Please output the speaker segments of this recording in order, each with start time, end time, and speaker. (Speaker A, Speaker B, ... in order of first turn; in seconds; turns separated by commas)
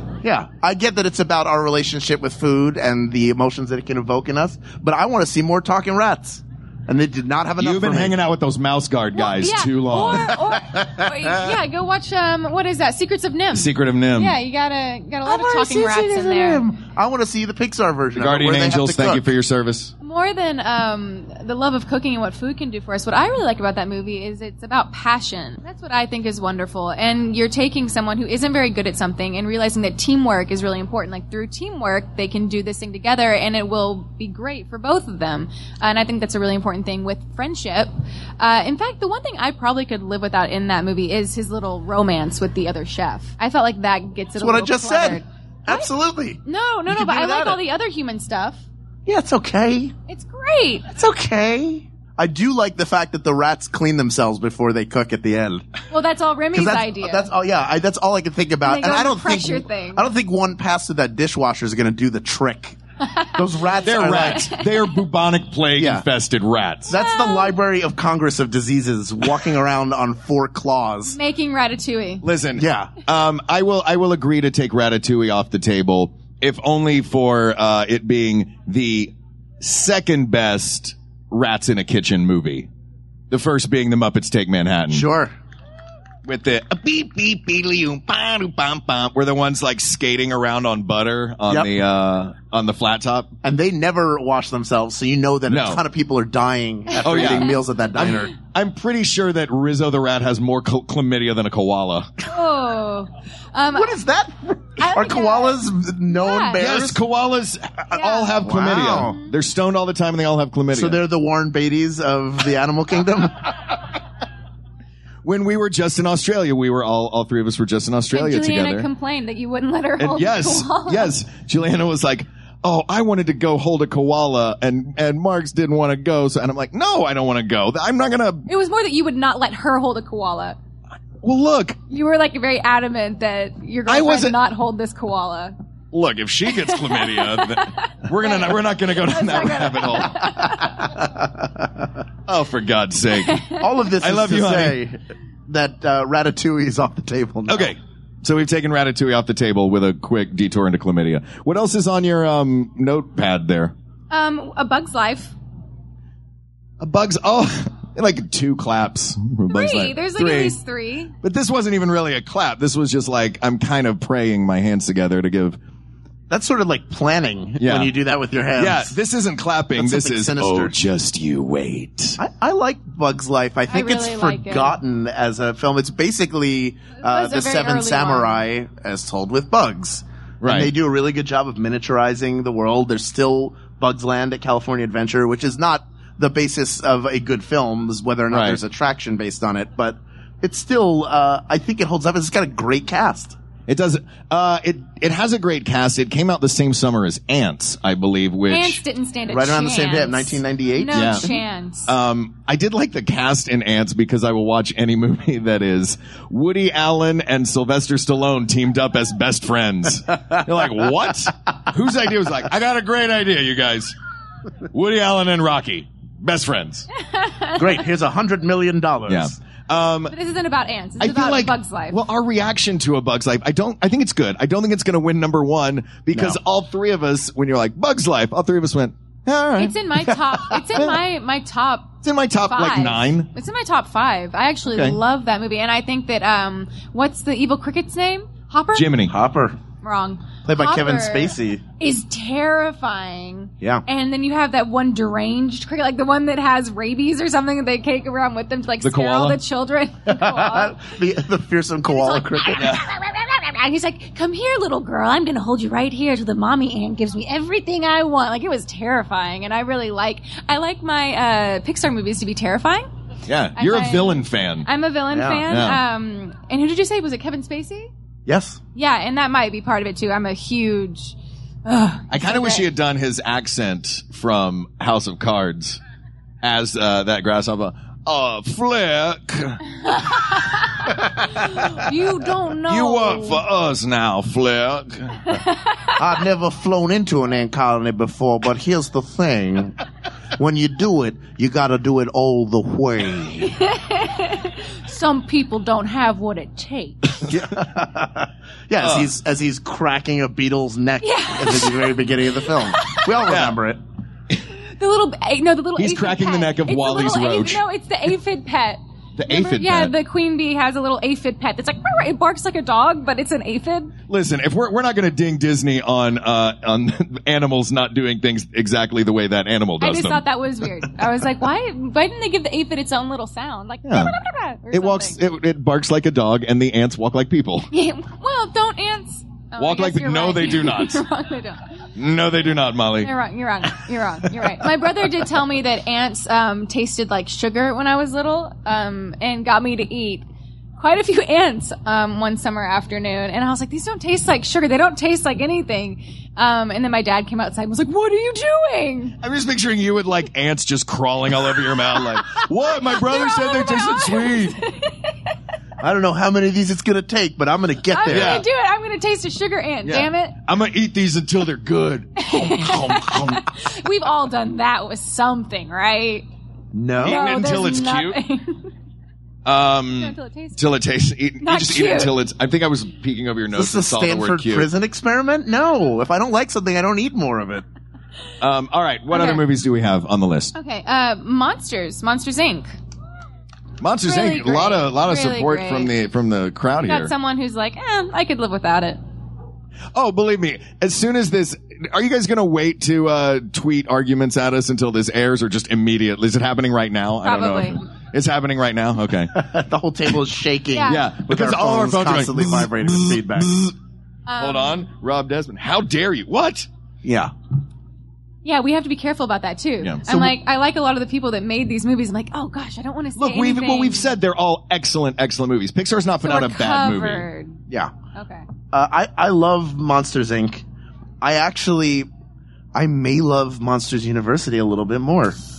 Speaker A: 0.2-8.2, Speaker B: 7.6-10.4, Speaker C: 9.2-16.6, Speaker A: 10.6-11.1, Speaker B: 13.5-14.4, Speaker A: 15.2-19.2, Speaker B: 18.1-19.9, Speaker C: 20.0-45.9, Speaker A: 44.4-47.6, Speaker C: 46.5-48.6, Speaker A: 49.1-49.9, Speaker C: 50.1-50.9, Speaker A: 50.9-55.7, Speaker C: 55.9-57.3, Speaker A: 56.5-62.8, Speaker C: 58.6-60.1, Speaker C: 63.0-63.4, Speaker A: 63.4-64.5, Speaker B: 63.8-66.9, Speaker C: 64.1-64.8, Speaker A: 65.8-66.0, Speaker C: 66.9-67.6, Speaker A: 66.9-71.2, Speaker C: 71.1-72.2, Speaker B: 72.2-82.7, Speaker A: 72.6-72.9, Speaker B: 83.3-85.0, Speaker A: 84.9-85.3, Speaker B: 86.2-93.3, Speaker A: 93.4-98.3, Speaker B: 95.5-95.8, Speaker B: 97.0-102.2, Speaker C: 97.2-97.5, Speaker C: 102.3-104.0, Speaker A: 103.7-107.0, Speaker C: 104.8-106.6, Speaker B: 106.5-111.0, Speaker C: 107.9-109.3, Speaker A: 108.4-109.2, Speaker A: 110.7-113.5, Speaker B: 115.2-118.9, Speaker C: 118.1-121.1, Speaker B: 120.0-128.5, Speaker C: 128.5-130.6, Speaker B: 131.2-131.8, Speaker C: 131.9-135.6, Speaker B: 133.9-134.4, Speaker B: 135.9-140.3, Speaker C: 136.5-140.9, Speaker A: 140.8-141.3, Speaker B: 142.3-144.8, Speaker C: 143.3-143.6, Speaker A: 143.6-147.7, Speaker B: 147.5-153.8, Speaker C: 154.1-155.3, Speaker B: 156.8-160.6, Speaker C: 159.5-161.1, Speaker B: 161.2-165.6, Speaker A: 166.3-169.0, Speaker B: 167.6-167.9, Speaker B: 168.6-172.2, Speaker A: 169.8-170.8, Speaker A: 172.2-193.4, Speaker C: 173.7-174.8, Speaker C: 177.0-178.4, Speaker B: 180.4-180.7, Speaker B: 188.3-188.6, Speaker B: 193.7-198.8, Speaker C: 198.5-201.9, Speaker A: 199.3-201.3, Speaker B: 200.9-201.3, Speaker B: 201.9-213.9, Speaker B: 214.7-216.9, Speaker C: 217.0-217.7, Speaker A: 217.6-219.4, Speaker B: 219.1-220.1, Speaker C: 220.1-222.0, Speaker B: 221.0-229.8, Speaker C: 229.6-239.0, Speaker B: 230.7-231.0, Speaker B: 232.0-233.3, Speaker B: 234.7-235.0, Speaker B: 238.7-239.1, Speaker A: 239.1-239.6, Speaker C: 239.8-250.9, Speaker A: 240.4-241.6, Speaker B: 248.8-249.4, Speaker A: 250.1-252.7, Speaker C: 251.9-262.9, Speaker B: 252.6-252.9, Speaker B: 263.3-264.7, Speaker C: 263.6-267.9, Speaker A: 265.1-265.4, Speaker B: 265.5-265.8, Speaker A: 268.3-268.6, Speaker C: 268.8-272.7, Speaker B: 272.1-275.8, Speaker B: 276.4-280.2, Speaker C: 280.1-283.4, Speaker B: 282.7-285.3, Speaker C: 285.3-285.9, Speaker A: 286.0-289.8, Speaker A: 290.4-293.6, Speaker C: 293.5-297.2, Speaker A: 297.3-303.8, Speaker B: 298.8-299.1, Speaker C: 301.0-302.0, Speaker C: 302.8-303.2, Speaker B: 303.3-303.5, Speaker C: 304.8-313.9, Speaker B: 305.8-307.6, Speaker B: 309.2-309.9, Speaker B: 314.1-320.2, Speaker C: 319.8-325.2, Speaker B: 323.9-324.1, Speaker B: 324.7-327.7, Speaker C: 327.7-331.7, Speaker B: 329.6-331.0, Speaker B: 332.0-333.1, Speaker C: 333.0-340.2, Speaker C: 340.8-349.2, Speaker B: 349.2-354.6, Speaker C: 351.9-355.3, Speaker A: 355.8-358.4, Speaker C: 357.9-360.4, Speaker B: 358.1-358.5, Speaker B: 359.8-363.7, Speaker C: 362.2-366.3, Speaker A: 366.7-367.2, Speaker B: 367.0-368.2, Speaker C: 367.0-368.7, Speaker B: 369.4-374.7, Speaker C: 370.0-370.6, Speaker C: 371.4-372.1, Speaker A: 373.5-377.6, Speaker B: 378.4-380.5, Speaker C: 379.1-379.4, Speaker C: 380.6-382.7, Speaker B: 383.8-387.1, Speaker C: 384.1-385.9, Speaker C: 386.9-389.0, Speaker B: 389.9-399.4, Speaker C: 397.2-397.9, Speaker A: 399.3-403.6, Speaker C: 400.7-401.1, Speaker B: 400.9-403.7, Speaker C: 404.3-404.8, Speaker B: 404.4-406.7, Speaker A: 407.0-407.3, Speaker C: 408.4-414.1, Speaker B: 413.2-417.3, Speaker C: 416.2-417.6, Speaker C: 418.1-418.5, Speaker A: 418.7-420.6, Speaker A: 421.2-422.1, Speaker A: 422.8-425.4